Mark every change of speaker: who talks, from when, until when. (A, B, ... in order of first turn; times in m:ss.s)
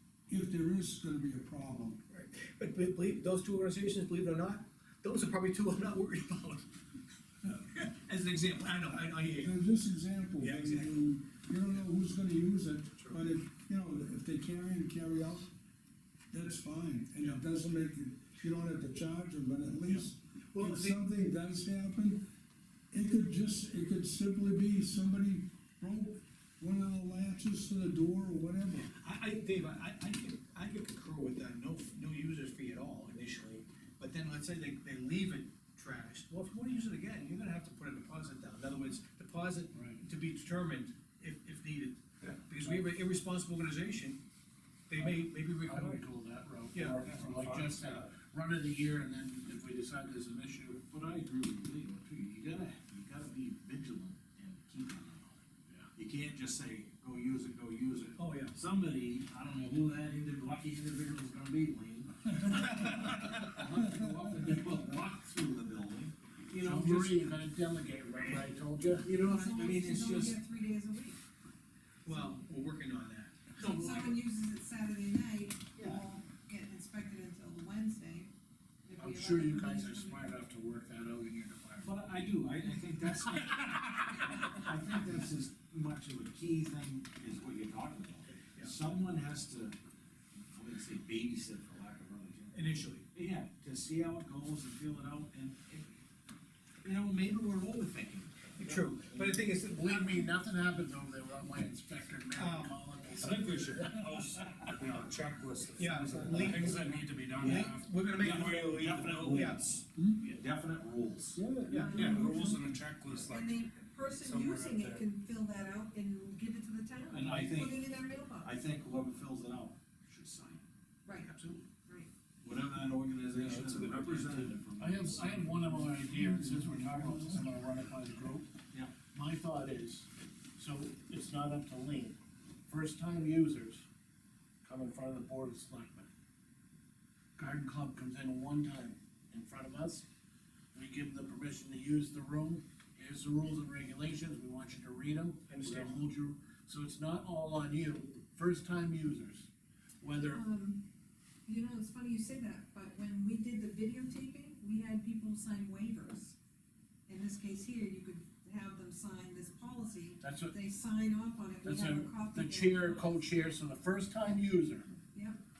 0:00.3-0:02.0 A
0:02.1-0:06.7 B
0:07.4-0:09.5 B
0:09.4-0:15.5 A
0:10.4-0:11.0 B
0:12.9-0:13.2 B
0:16.3-0:22.3 A
0:19.9-0:21.0 B
0:22.9-0:28.9 A
0:28.8-0:44.2 B
0:39.7-0:40.0 C
0:42.6-0:42.9 C
0:44.9-0:46.0 B
0:45.0-0:50.8 C
0:46.7-0:48.0 B
0:50.8-1:06.1 D
0:58.2-0:58.6 B
1:03.8-1:04.3 A
1:06.6-1:09.1 C
1:09.0-1:10.4 D
1:09.1-1:11.2 E
1:12.0-1:13.5 B
1:13.6-1:18.3 E
1:13.6-1:14.1 D
1:15.8-1:16.0 D
1:18.8-1:20.4 E
1:19.0-1:22.1 C
1:21.8-1:29.8 D
1:28.4-1:28.7 B
1:30.5-1:35.9 D
1:32.5-1:33.0 B
1:36.8-1:39.1 D
1:38.6-1:40.3 B
1:39.7-1:44.2 C
1:42.3-1:42.7 B
1:43.3-1:49.4 F
1:44.0-1:44.7 D
1:45.8-1:46.8 B
1:46.3-1:46.7 D
1:47.4-1:51.4 D
1:47.4-1:49.6 B
1:51.3-1:52.7 A
1:51.7-1:52.1 B
1:51.7-1:52.6 E
1:51.8-1:55.0 F
1:53.3-1:58.5 E
1:57.1-1:57.8 D
1:58.4-2:00.6 D
2:01.0-2:01.3 E
2:01.2-2:01.6 D
2:02.4-2:05.8 D
2:04.8-2:08.5 C
2:05.7-2:07.4 A
2:09.1-2:12.2 C
2:12.7-2:13.8 C
2:14.6-2:16.1 C
2:17.4-2:20.0 C
2:20.7-2:29.5 C
2:25.5-2:25.9 B
2:30.0-2:30.4 C
2:30.3-2:30.8 E
2:31.4-2:36.4 E
2:37.1-2:43.2 E
2:40.2-2:40.5 C
2:41.6-2:44.9 C
2:45.1-2:45.4 E